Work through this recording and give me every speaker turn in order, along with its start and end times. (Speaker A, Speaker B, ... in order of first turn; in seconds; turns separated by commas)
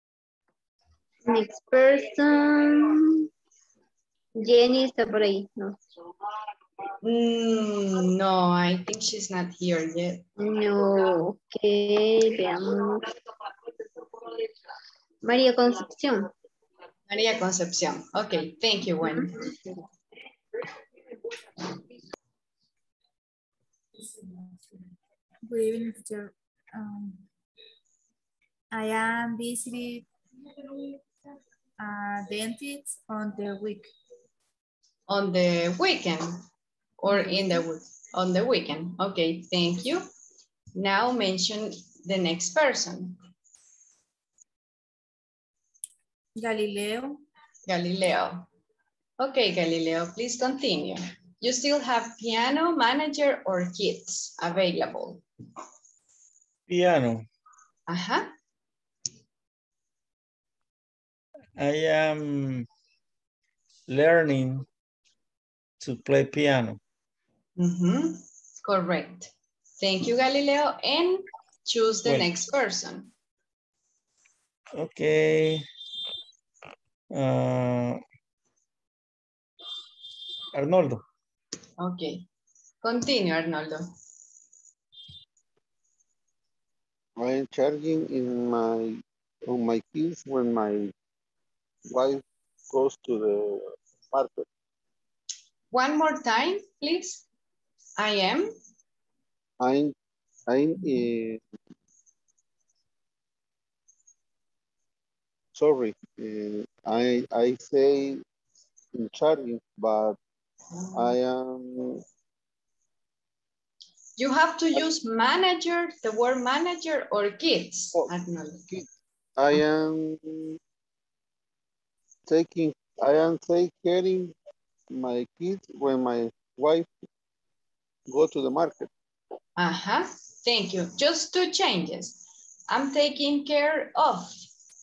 Speaker A: 1.3-3.3, Speaker A: 4.4-5.8, Speaker B: 7.0-10.3, Speaker A: 10.4-13.0, Speaker A: 15.2-16.3, Speaker B: 17.1-19.4, Speaker C: 24.0-24.6, Speaker C: 25.5-27.2, Speaker C: 28.7-30.1, Speaker C: 30.7-31.0, Speaker C: 31.8-33.9, Speaker B: 35.1-36.4, Speaker B: 37.0-40.1, Speaker B: 40.8-43.2, Speaker C: 46.4-47.2, Speaker B: 47.7-48.5, Speaker B: 49.2-55.2, Speaker D: 56.7-57.2, Speaker B: 57.9-58.3, Speaker D: 61.6-62.7, Speaker D: 63.9-64.7, Speaker D: 65.8-66.8, Speaker B: 67.6-73.1, Speaker D: 74.8-75.7, Speaker D: 77.1-78.0, Speaker D: 80.5-81.0, Speaker B: 81.8-82.2, Speaker B: 82.8-83.9, Speaker E: 87.2-90.9, Speaker E: 91.9-94.5, Speaker B: 95.7-97.2, Speaker B: 98.0-98.5, Speaker E: 99.6-100.0, Speaker E: 100.5-101.4, Speaker E: 105.5-108.2, Speaker E: 108.9-110.2, Speaker B: 110.7-111.2, Speaker E: 111.0-112.0, Speaker B: 114.2-118.7, Speaker E: 119.4-120.6, Speaker E: 122.3-124.3, Speaker E: 124.9-126.9, Speaker E: 128.1-128.9, Speaker B: 129.6-134.4